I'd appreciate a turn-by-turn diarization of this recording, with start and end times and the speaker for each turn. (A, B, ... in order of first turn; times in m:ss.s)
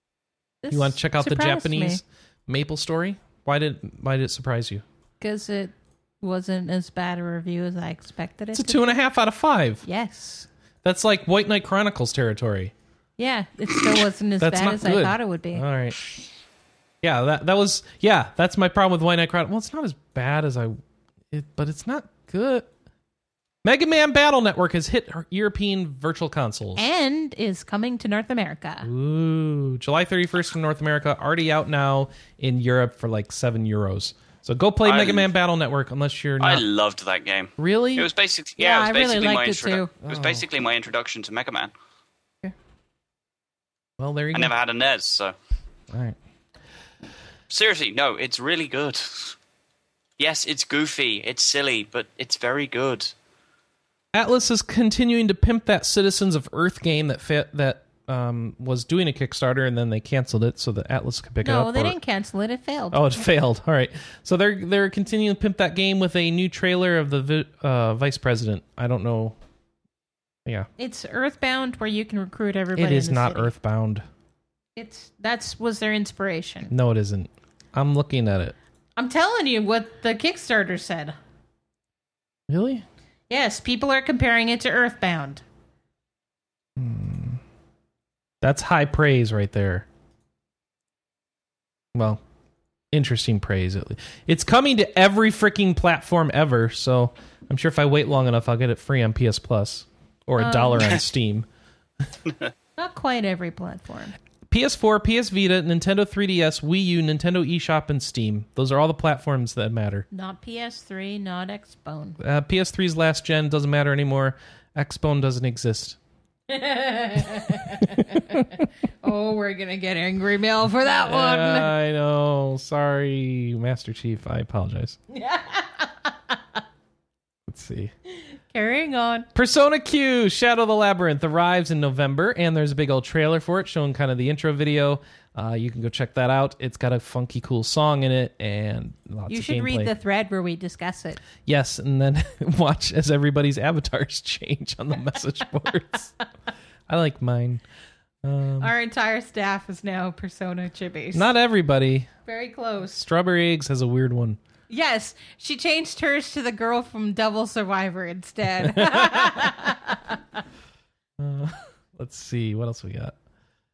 0:00.6-0:02.0 A
0:00.7-0:04.8 B
0:05.2-0:08.9 A
0:08.5-0:09.8 B
0:09.8-0:10.5 A
0:10.8-0:12.7 B
0:13.2-0:15.6 A
0:14.4-0:16.0 B
0:17.0-0:20.8 B
0:21.3-0:22.7 B
0:23.6-0:26.9 B
0:26.8-0:28.9 A
0:28.8-0:36.6 B
0:34.8-0:35.3 C
0:36.4-0:41.7 C
0:37.6-0:38.1 B
0:38.6-0:39.9 A
0:40.0-0:40.5 B
0:44.0-0:44.6 B
0:44.3-0:45.3 C
0:45.9-0:46.2 B
0:47.5-0:49.4 C
0:50.2-0:53.1 C
0:54.1-1:02.0 B
1:01.4-1:03.2 A
1:02.9-1:09.4 B
1:10.8-1:13.5 A
1:12.8-1:14.0 B
1:14.8-1:16.7 A
1:16.7-1:18.6 B
1:19.0-1:21.2 A
1:22.5-1:22.9 B
1:23.3-1:25.4 A
1:26.8-1:27.4 B
1:28.4-1:29.9 B
1:31.9-1:32.2 B
1:32.9-1:41.5 B
1:40.4-1:41.0 A
1:42.8-1:44.2 A
1:44.5-1:50.1 B
1:50.1-1:52.2 A
1:52.2-1:56.0 B
1:56.5-2:01.7 A
1:57.4-1:58.5 B
2:01.0-2:05.0 B
2:05.1-2:06.4 A
2:07.5-2:07.9 B
2:08.1-2:09.3 A
2:09.4-2:19.9 B
2:19.3-2:21.2 A
2:21.4-2:26.1 B
2:26.9-2:27.6 B
2:28.2-2:28.7 B
2:28.6-2:31.3 A
2:31.1-2:32.1 B
2:32.3-2:33.0 A
2:32.9-2:34.4 B
2:34.7-2:40.2 A
2:38.6-2:39.8 B
2:41.2-2:43.2 B